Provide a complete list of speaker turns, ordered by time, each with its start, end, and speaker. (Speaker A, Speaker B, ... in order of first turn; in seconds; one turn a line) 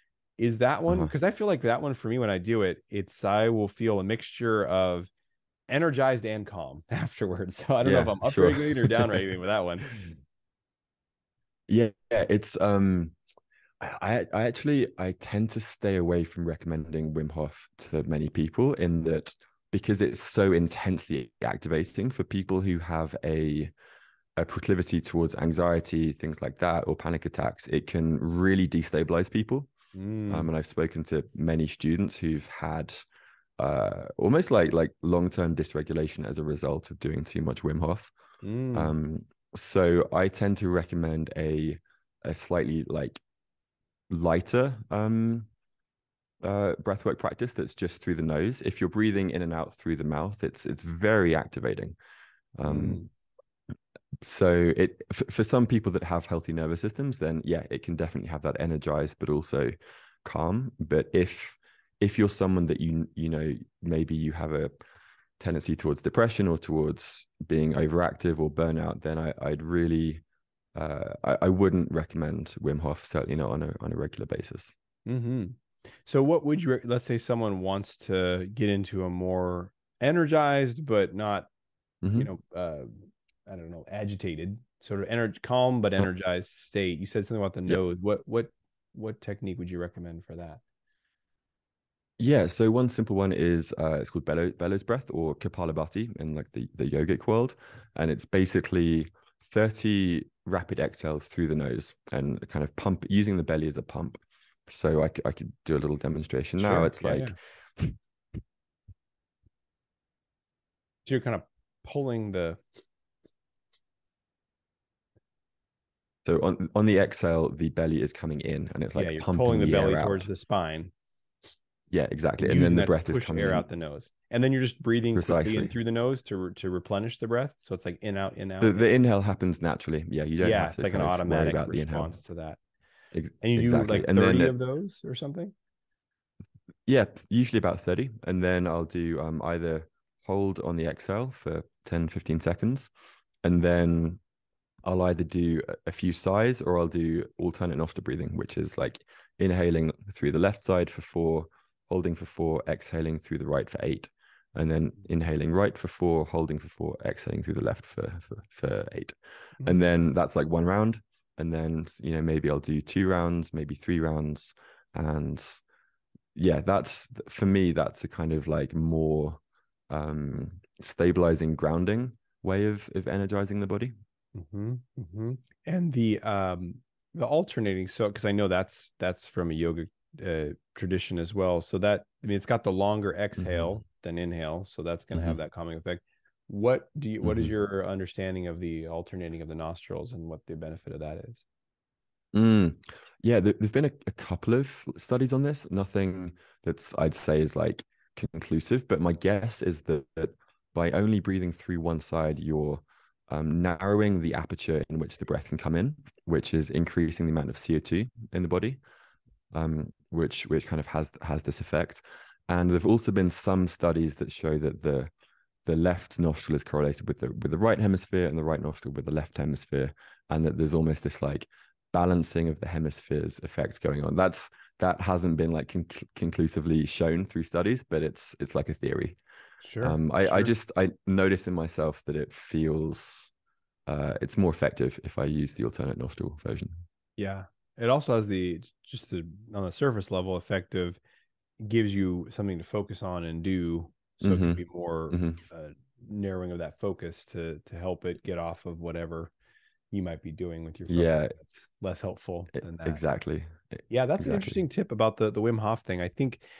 Speaker A: 0.4-5.1
Speaker A: 5.7-9.9
Speaker B: 7.8-9.2
Speaker B: 11.7-13.2
Speaker B: 13.8-23.7
Speaker B: 24.4-29.7
Speaker A: 29.9-30.5
Speaker B: 30.3-33.0
Speaker B: 33.6-38.1
Speaker A: 38.4-38.9
Speaker B: 38.7-43.2
Speaker B: 44.1-45.5
Speaker B: 46.4-52.0
Speaker B: 52.5-53.0
Speaker A: 52.6-53.1
Speaker B: 54.2-64.7
Speaker B: 65.4-70.2
Speaker B: 70.7-74.7
Speaker A: 75.0-81.5
Speaker B: 82.0-82.3
Speaker A: 82.2-90.6
Speaker B: 92.2-107.9
Speaker A: 106.6-107.3
Speaker A: 111.0-112.6
Speaker B: 116.2-120.3
Speaker A: 118.9-120.9
Speaker B: 121.9-123.7
Speaker A: 122.4-128.9
Speaker B: 125.1-125.7
Speaker B: 128.6-132.1
Speaker A: 130.4-132.6
Speaker B: 133.1-134.5
Speaker A: 133.4-135.5
Speaker B: 136.8-142.9
Speaker B: 143.4-144.2
Speaker B: 144.8-165.6
Speaker B: 166.3-173.9
Speaker A: 174.3-191.4
Speaker B: 183.4-183.7
Speaker B: 185.1-185.4
Speaker B: 187.2-187.5
Speaker B: 192.3-208.8
Speaker B: 209.5-215.1
Speaker B: 215.6-229.2
Speaker A: 229.6-230.5
Speaker B: 229.8-233.3
Speaker B: 233.9-236.8
Speaker A: 237.2-241.0
Speaker A: 241.6-249.3
Speaker B: 244.2-245.4
Speaker A: 249.9-253.0
Speaker B: 250.9-251.3
Speaker B: 252.6-254.6
Speaker A: 253.9-256.4